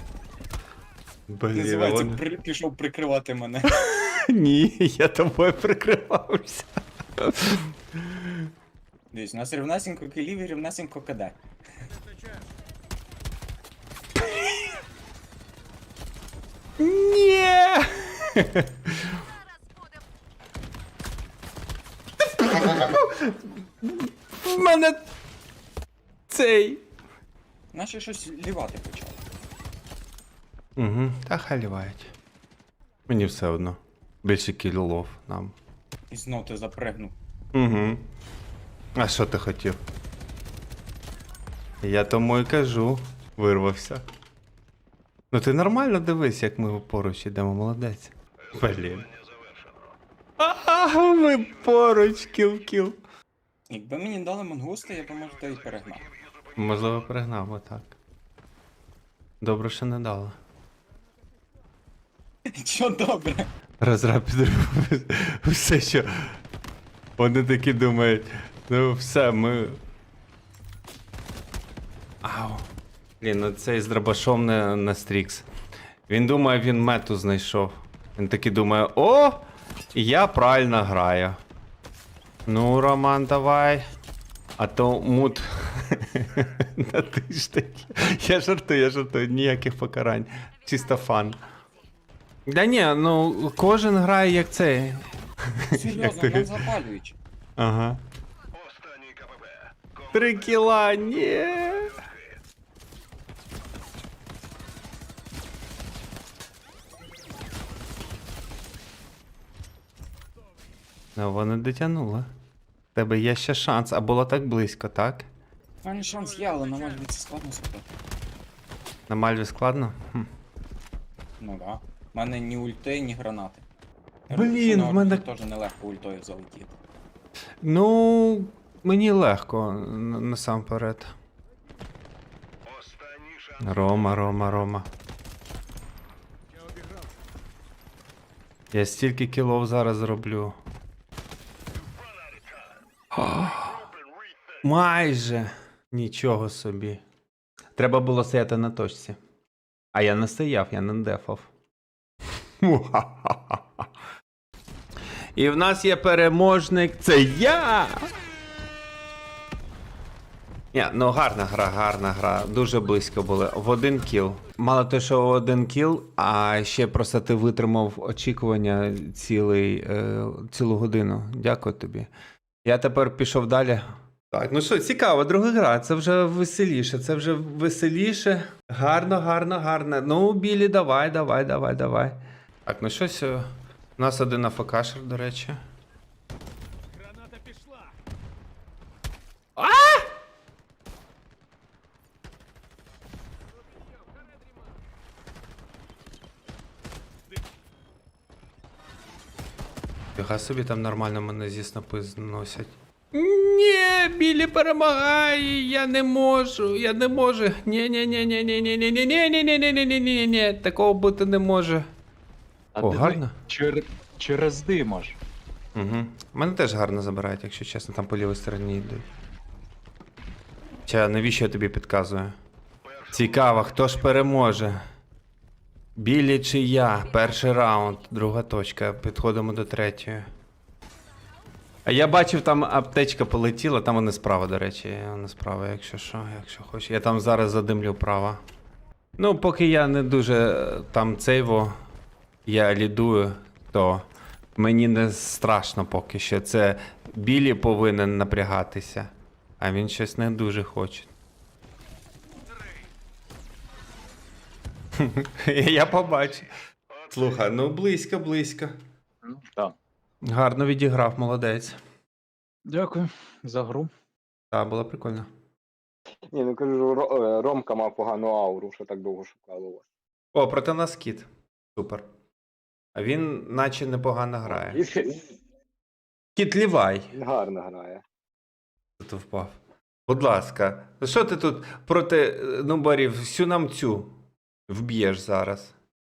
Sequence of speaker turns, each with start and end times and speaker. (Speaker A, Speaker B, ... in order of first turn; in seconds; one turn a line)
Speaker A: 1.3-2.2
Speaker B: 1.5-3.7
Speaker A: 3.7-8.5
Speaker B: 9.1-11.4
Speaker A: 16.8-19.2
Speaker A: 22.3-25.1
Speaker A: 26.3-26.8
Speaker B: 27.7-29.2
Speaker A: 30.8-32.1
Speaker A: 33.1-35.5
Speaker B: 36.1-37.1
Speaker A: 37.5-38.0
Speaker A: 39.0-39.8
Speaker A: 41.8-44.0
Speaker A: 45.3-49.1
Speaker A: 50.4-53.0
Speaker B: 53.7-56.1
Speaker A: 56.6-58.0
Speaker A: 59.4-60.4
Speaker B: 62.5-63.5
Speaker A: 63.8-66.4
Speaker A: 67.2-69.8
Speaker A: 72.2-72.7
Speaker A: 73.2-75.5
Speaker A: 76.1-79.4
Speaker A: 79.9-81.4
Speaker A: 82.5-83.9
Speaker A: 84.6-91.4
Speaker A: 92.5-96.5
Speaker B: 95.7-97.2
Speaker A: 97.6-98.0
Speaker A: 100.0-101.9
Speaker A: 111.2-112.3
Speaker A: 113.0-115.3
Speaker B: 115.8-117.8
Speaker A: 119.1-120.3
Speaker B: 121.4-123.6
Speaker B: 124.3-126.7
Speaker A: 124.3-125.2
Speaker A: 127.6-131.1
Speaker A: 133.6-134.9
Speaker A: 138.7-140.6
Speaker A: 143.1-143.9
Speaker A: 144.6-147.0
Speaker A: 147.8-149.2
Speaker A: 149.9-151.5
Speaker A: 152.6-153.7
Speaker A: 155.4-158.1
Speaker A: 160.7-172.1
Speaker A: 172.7-185.6
Speaker A: 189.6-190.1
Speaker A: 200.2-211.9
Speaker C: 212.8-215.2
Speaker A: 212.8-213.3
Speaker A: 215.8-219.1
Speaker A: 220.9-222.3
Speaker A: 223.1-224.8
Speaker A: 226.0-230.3
Speaker A: 231.9-238.4
Speaker A: 239.2-241.8
Speaker A: 242.5-244.1
Speaker A: 244.6-251.1
Speaker A: 255.0-256.5
Speaker A: 257.1-258.8
Speaker C: 259.2-259.8
Speaker A: 260.2-261.8
Speaker C: 262.7-263.9
Speaker A: 264.5-265.3
Speaker D: 266.3-269.9
Speaker A: 270.3-272.1
Speaker A: 272.9-274.8
Speaker D: 274.5-275.3
Speaker A: 276.4-277.1
Speaker D: 277.1-278.0
Speaker A: 279.0-284.1
Speaker A: 284.7-285.8